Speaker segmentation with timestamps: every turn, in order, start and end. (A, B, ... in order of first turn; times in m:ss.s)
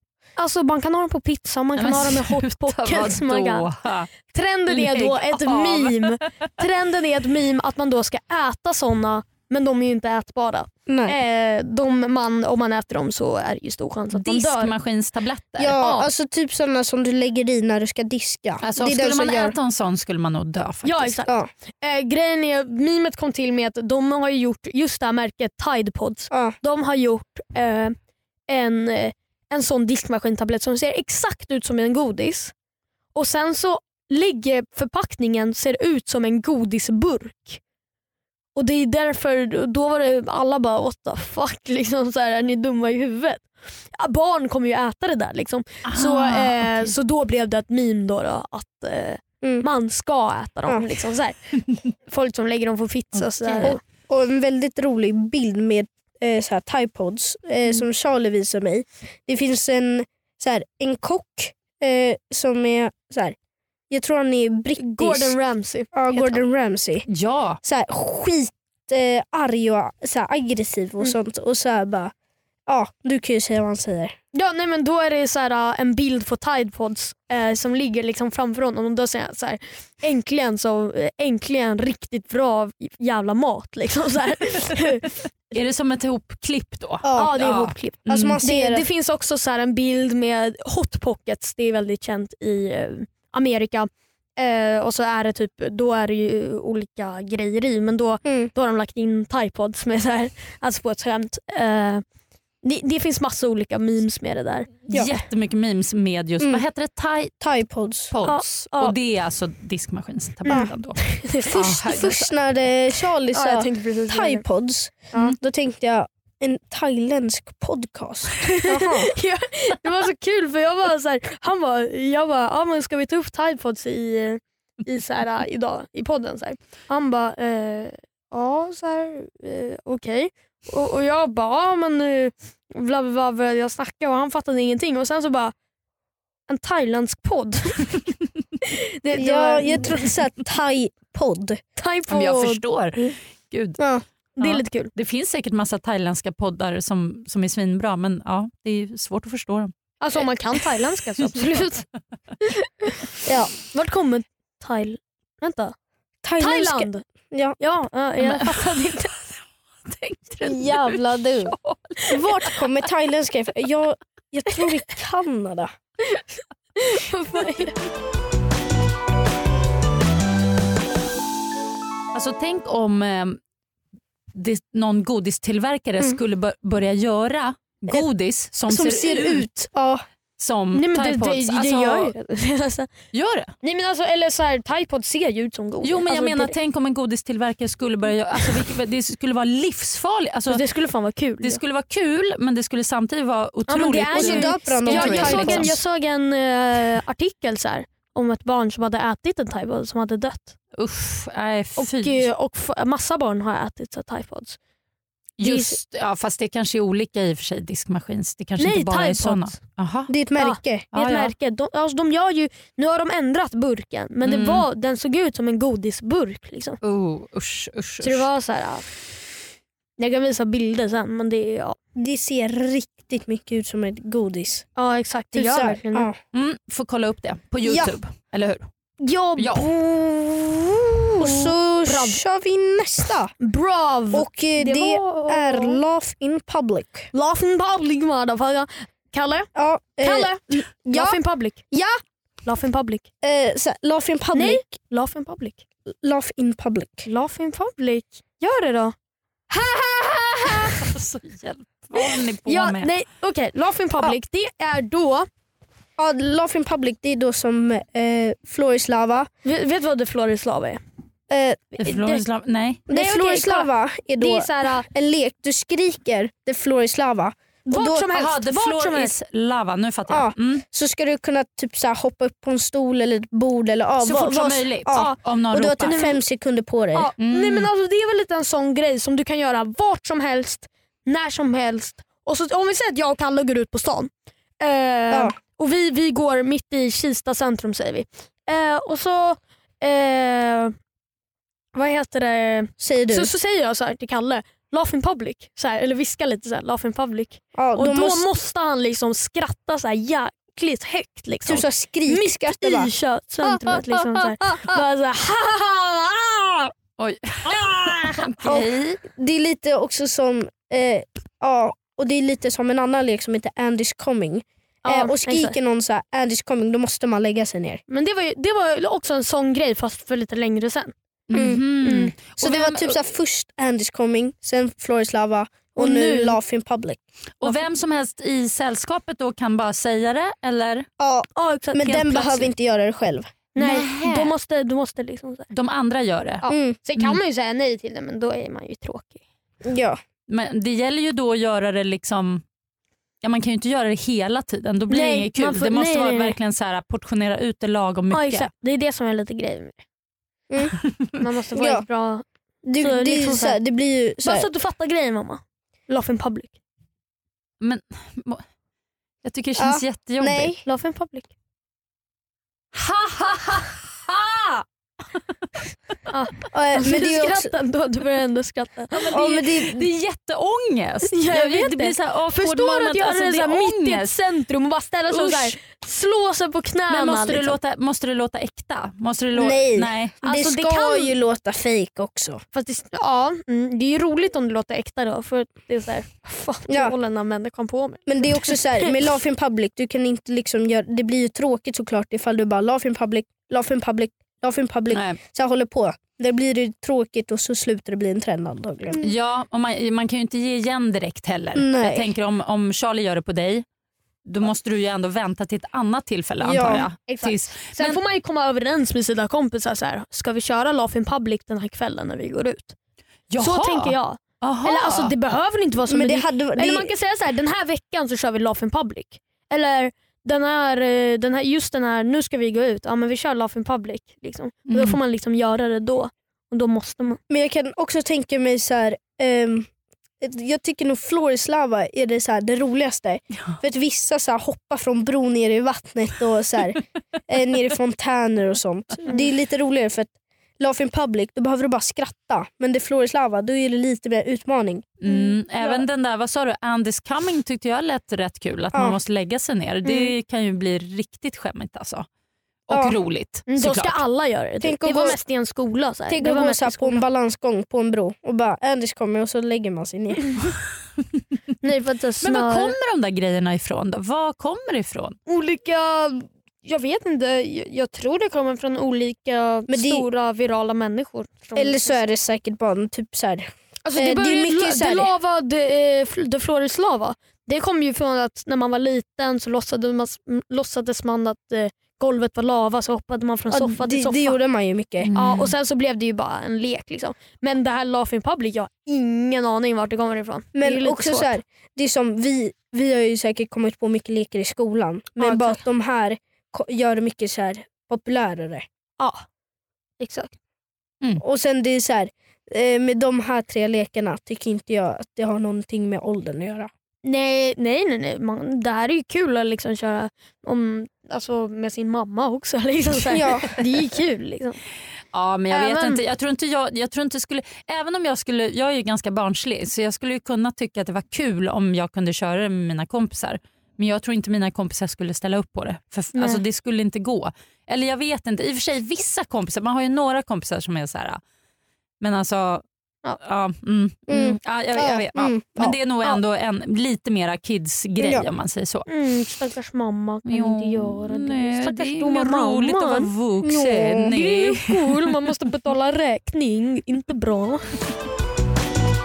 0:00.4-0:03.7 A
0:01.8-0:04.1 B
0:04.2-0:14.7 A
0:04.7-0:06.3 B
0:10.9-0:11.2 C
0:14.1-0:15.8 B
0:15.6-0:19.6 C
0:15.8-0:16.1 A
0:18.6-0:21.2 B
0:20.8-0:28.0 A
0:28.5-0:32.5 A
0:33.2-0:37.6 A
0:38.6-0:51.4 A
0:45.9-0:46.9 B
0:52.1-0:53.8 A
0:53.2-0:53.7 B
0:53.6-1:03.4 C
1:03.9-1:05.4 C
1:04.8-1:06.4 A
1:05.9-1:07.1 C
1:07.1-1:07.6 B
1:07.6-1:12.1 C
1:12.7-1:14.2 C
1:14.3-1:25.1 A
1:25.5-1:28.4 B
1:27.0-1:27.5 C
1:27.2-1:42.0 A
1:28.1-1:28.8 C
1:38.2-1:38.5 C
1:42.6-1:44.9 A
1:44.9-1:47.4 B
1:47.4-1:48.1 C
1:48.1-1:52.3 B
1:48.2-1:49.0 A
1:50.5-1:52.2 A
1:51.5-1:59.1 C
1:53.3-1:54.4 A
1:58.4-2:15.5 A
2:16.5-2:18.0 A
2:18.6-2:20.1 A
2:19.2-2:21.6 C
2:21.8-2:22.6 A
2:22.1-2:23.8 B
2:23.8-2:24.0 C
2:24.4-2:24.9 A
2:24.4-2:29.7 B
2:30.0-2:31.9 A
2:32.4-2:33.0 A
2:33.2-2:33.5 C
2:33.7-2:35.8 A
2:36.2-2:37.6 C
2:36.4-2:37.0 A
2:37.6-2:39.1 A
2:38.2-2:38.7 B
2:39.8-2:40.8 B
2:40.4-2:41.0 A
2:40.4-2:41.6 C
2:42.0-2:42.5 A
2:42.1-2:45.7 C
2:46.8-2:47.8 A
2:52.1-2:53.4 B
2:54.3-2:59.5 B
2:58.7-3:00.0 C
3:00.4-3:02.1 B
3:00.7-3:02.9 A
3:03.1-3:03.5 B
3:03.6-3:06.6 A
3:05.8-3:10.6 B
3:10.5-3:11.6 A
3:11.4-3:15.8 B
3:13.7-3:20.6 A
3:14.1-3:15.8 C
3:20.8-3:22.3 B
3:21.8-3:24.6 A
3:25.4-3:30.1 B
3:25.4-3:25.8 A
3:28.6-3:29.6 A
3:30.1-3:30.9 C
3:30.4-3:36.8 A
3:30.9-3:31.3 B
3:34.2-3:34.7 B
3:36.8-3:38.3 B
3:38.0-3:38.9 A
3:40.0-3:41.8 A
3:42.0-3:44.7 C
3:44.8-3:46.1 A
3:45.3-3:46.2 C
3:46.3-3:48.7 B
3:47.6-3:47.9 C
3:49.0-3:52.2 A
3:49.4-3:49.7 B
3:51.2-3:53.3 C
3:53.4-3:55.8 A
3:54.1-3:57.1 C
3:57.1-3:59.5 A
3:59.6-4:01.2 C
4:00.0-4:01.6 A
4:01.7-4:02.0 C
4:02.4-4:03.1 A
4:03.2-4:04.7 C
4:04.3-4:05.6 A
4:05.9-4:07.1 C
4:07.1-4:09.0 A
4:09.5-4:10.9 A
4:10.7-4:12.9 B
4:12.0-4:15.3 A
4:16.0-4:19.3 C
4:19.4-4:20.8 A
4:21.3-4:21.6 C
4:21.8-4:22.2 A
4:21.8-4:22.8 B
4:22.9-4:28.1 C
4:22.9-4:24.9 A
4:27.7-4:29.1 A
4:28.1-4:30.6 B
4:30.1-4:37.1 C
4:34.0-4:36.0 B
4:34.9-4:35.2 A
4:35.8-4:36.2 A
4:36.9-4:50.8 A
4:37.2-4:37.7 B
4:45.1-4:45.4 C
4:51.7-5:06.7 A
4:52.8-4:53.3 C
4:57.6-4:58.3 C
5:01.5-5:02.9 C
5:03.4-5:04.8 C
5:07.0-5:09.0 B
5:07.5-5:08.4 A
5:08.4-5:17.8 C
5:14.8-5:15.6 A
5:17.9-5:20.9 A
5:21.3-5:22.9 B
5:21.4-5:21.6 C
5:21.8-5:22.2 A
5:22.4-5:27.0 C
5:25.8-5:26.4 A
5:27.4-5:30.9 B
5:31.0-5:33.3 C
5:31.4-5:32.5 A
5:33.6-5:35.5 A
5:33.6-5:34.3 B
5:35.5-5:36.4 B
5:36.4-5:39.2 A
5:36.5-5:36.8 C
5:39.6-5:40.0 C
5:40.3-5:42.4 B
5:43.2-5:48.5 B
5:44.9-5:46.4 A
5:48.1-5:49.8 A
5:50.5-5:50.8 C
5:51.2-5:52.2 A
5:51.6-5:51.8 C
5:52.6-5:54.5 C
5:52.8-5:53.6 A
5:54.2-5:56.6 A
5:57.6-5:58.4 B
5:59.2-6:00.5 B
5:59.6-6:00.6 C
6:00.7-6:01.3 A
6:02.7-6:04.6 B
6:06.1-6:09.2 A
6:06.5-6:07.5 C
6:09.0-6:14.1 B
6:09.1-6:09.9 C
6:11.1-6:17.6 A
6:15.1-6:15.6 B
6:16.9-6:20.2 B
6:19.4-6:22.4 C
6:20.2-6:21.1 A
6:22.5-6:29.0 A
6:26.7-6:27.0 C
6:28.1-6:39.0 C
6:34.9-6:35.2 B
6:39.0-6:43.6 B
6:41.6-6:42.1 C
6:44.3-6:48.0 B
6:46.4-6:46.9 C
6:47.1-6:52.8 A
6:53.3-6:55.1 B
6:53.4-7:07.2 A
6:55.9-6:56.9 C
7:04.7-7:05.0 B
7:07.3-7:09.7 C
7:10.2-7:25.0 C
7:25.0-7:32.1 B
7:25.1-7:25.8 A
7:29.9-7:30.1 A
7:32.7-7:34.0 B
7:32.7-7:33.0 C
7:33.5-7:37.0 A
7:34.6-7:35.2 C
7:36.1-7:40.2 C
7:41.6-7:42.8 A
7:42.2-7:45.2 B
7:45.3-7:52.0 A
7:49.7-7:50.0 C
7:51.6-7:55.1 C
7:53.8-8:04.4 A
8:03.5-8:05.1 C
8:05.0-8:05.5 B
8:05.2-8:11.4 A
8:10.6-8:18.6 C
8:15.2-8:15.6 A
8:19.0-8:19.2 A
8:20.0-8:20.3 A
8:21.2-8:26.7 C
8:27.0-8:34.6 A
8:33.1-8:33.5 C
8:35.1-8:51.2 B
8:35.5-8:36.0 A
8:46.1-8:46.4 A
8:52.0-8:52.6 B
8:53.2-8:58.9 B
8:54.1-8:55.8 C
8:58.0-8:58.3 C
8:58.9-9:03.1 A
9:00.3-9:05.1 B
9:03.4-9:04.1 C
9:04.1-9:07.7 A